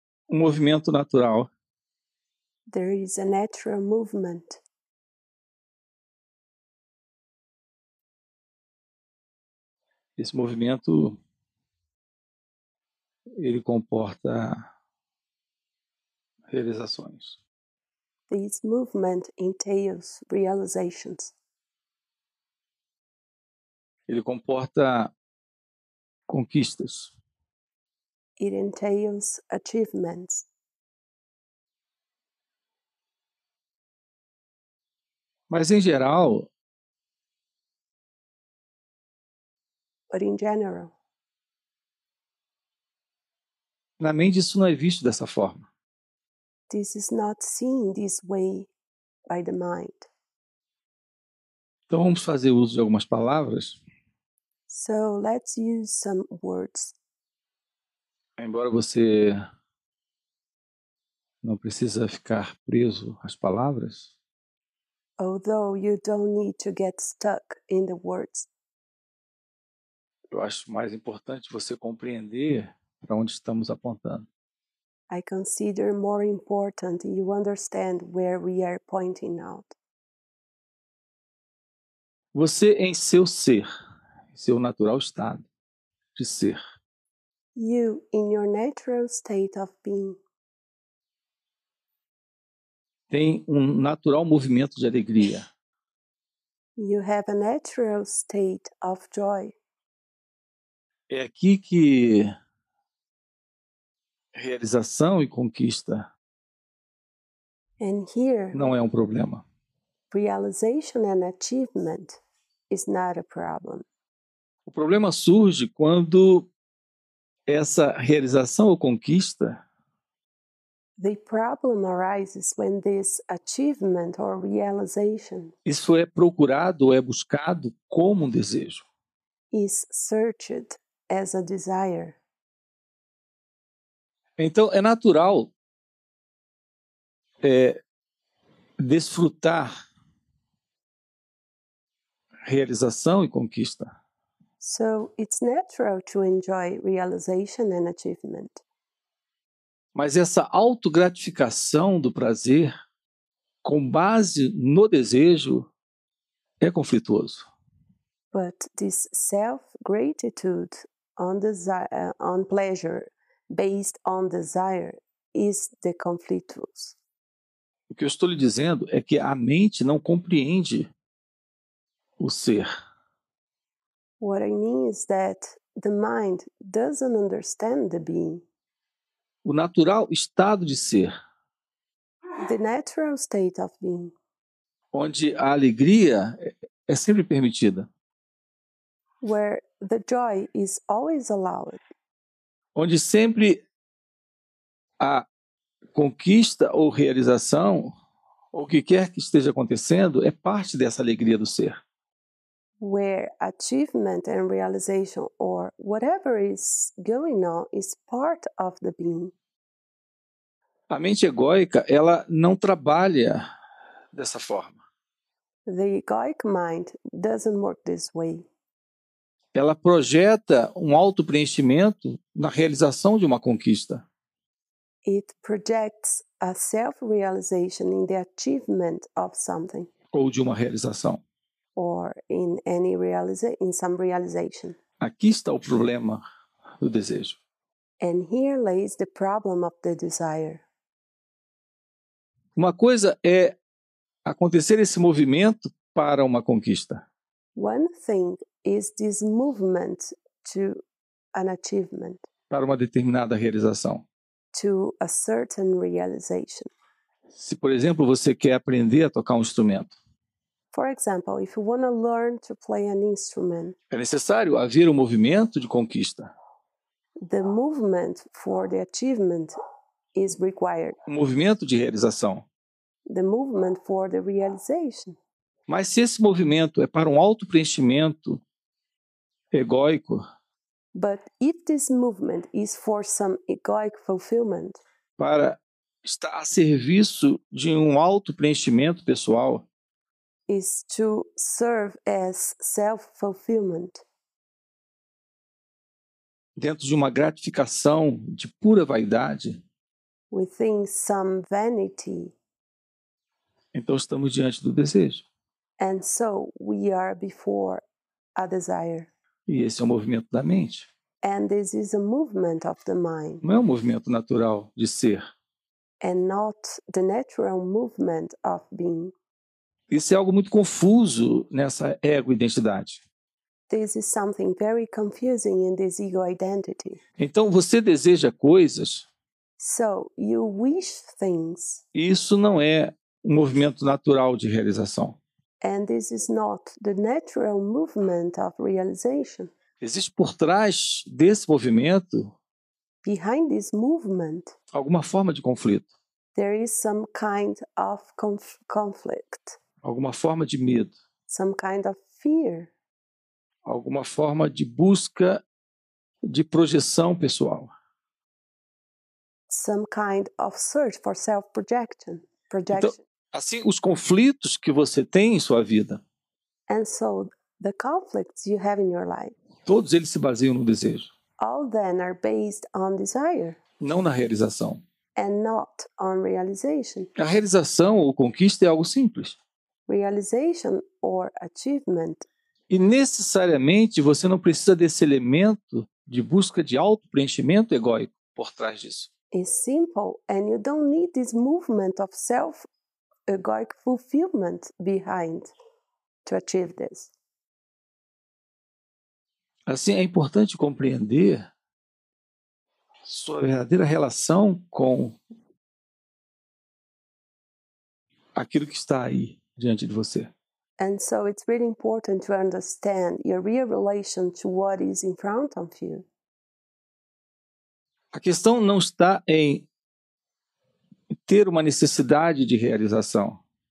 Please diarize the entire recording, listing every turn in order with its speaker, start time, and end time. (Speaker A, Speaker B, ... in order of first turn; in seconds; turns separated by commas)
Speaker A: 0.3-1.5, Speaker B: 2.7-4.6, Speaker A: 10.2-11.2, Speaker A: 13.4-14.6, Speaker A: 16.5-17.4, Speaker B: 18.3-21.3, Speaker A: 24.1-25.1, Speaker A: 26.3-27.1, Speaker B: 28.4-30.4, Speaker A: 35.5-36.5, Speaker B: 40.1-40.9, Speaker A: 44.0-45.7, Speaker B: 46.7-48.7, Speaker B: 49.3-50.1, Speaker A: 51.9-53.8, Speaker B: 54.7-57.0, Speaker A: 58.4-59.4, Speaker A: 61.4-64.1, Speaker B: 65.2-68.5, Speaker A: 70.3-74.3, Speaker B: 75.1-79.7, Speaker A: 82.3-83.6, Speaker A: 84.3-85.5, Speaker A: 86.1-86.6, Speaker B: 87.5-90.2, Speaker A: 93.1-95.5, Speaker B: 96.8-99.5, Speaker A: 101.1-102.3, Speaker A: 104.3-106.1, Speaker B: 107.8-108.6, Speaker A: 108.5-109.4, Speaker B: 110.1-113.8, Speaker A: 114.7-116.5, Speaker A: 117.5-119.6, Speaker B: 121.0-125.5, Speaker A: 125.6-128.8, Speaker B: 129.5-132.2, Speaker A: 134.4-135.5, Speaker A: 137.4-137.8, Speaker A: 138.8-139.7, Speaker A: 142.4-143.9, Speaker B: 144.6-148.6, Speaker A: 149.9-152.7, Speaker A: 153.6-155.7, Speaker A: 156.6-157.4, Speaker B: 158.3-167.0, Speaker A: 167.9-170.9, Speaker A: 172.2-172.7, Speaker B: 174.2-178.4, Speaker A: 179.4-181.1, Speaker B: 182.4-184.1, Speaker A: 184.9-187.9, Speaker B: 189.2-191.8, Speaker A: 192.7-193.6, Speaker A: 195.0-195.2, Speaker A: 195.9-197.9, Speaker A: 198.5-201.7, Speaker B: 202.8-209.3, Speaker A: 210.9-213.4, Speaker A: 214.1-214.8, Speaker B: 215.7-218.4, Speaker A: 219.5-224.0, Speaker B: 225.0-229.9, Speaker A: 230.1-231.2, Speaker B: 231.7-234.8, Speaker A: 235.0-236.2, Speaker A: 236.8-237.4, Speaker B: 238.0-240.6, Speaker A: 242.6-243.6, Speaker A: 244.2-247.0, Speaker B: 247.5-250.8, Speaker B: 251.3-252.2, Speaker A: 252.5-254.0, Speaker B: 254.5-256.7, Speaker A: 257.3-259.9, Speaker B: 260.7-263.8, Speaker A: 263.9-266.3, Speaker B: 267.2-269.5, Speaker B: 270.1-271.0, Speaker A: 271.1-272.4, Speaker B: 273.1-275.2, Speaker A: 275.7-278.4, Speaker A: 279.5-280.2, Speaker B: 280.9-284.8, Speaker A: 285.2-289.7, Speaker B: 290.5-294.0, Speaker A: 296.6-299.6, Speaker B: 300.3-302.3, Speaker A: 303.7-305.2, Speaker B: 305.8-307.8, Speaker B: 308.4-309.1, Speaker A: 309.5-310.9, Speaker B: 311.2-313.4, Speaker A: 313.4-315.2, Speaker B: 316.0-319.1, Speaker A: 319.9-323.0, Speaker B: 323.7-327.0, Speaker A: 327.2-329.1, Speaker B: 329.6-331.8, Speaker A: 331.9-335.2, Speaker B: 335.6-339.5, Speaker A: 339.8-342.3, Speaker B: 343.0-344.5, Speaker A: 344.7-345.9, Speaker B: 346.3-349.6, Speaker A: 349.8-350.9, Speaker B: 351.3-352.7, Speaker A: 353.6-355.4, Speaker A: 356.3-357.7, Speaker B: 359.5-363.0, Speaker A: 362.7-366.0, Speaker B: 366.7-369.3, Speaker A: 369.7-371.1, Speaker B: 371.4-373.6, Speaker A: 373.8-374.8, Speaker B: 375.1-377.1, Speaker A: 377.1-379.4, Speaker B: 379.9-382.2, Speaker A: 382.7-389.1, Speaker B: 389.3-392.7, Speaker B: 393.3-395.5, Speaker B: 396.2-397.1, Speaker A: 399.7-401.5, Speaker A: 403.1-405.2, Speaker A: 408.3-410.3, Speaker B: 410.8-416.1, Speaker A: 418.1-419.7, Speaker A: 421.1-423.4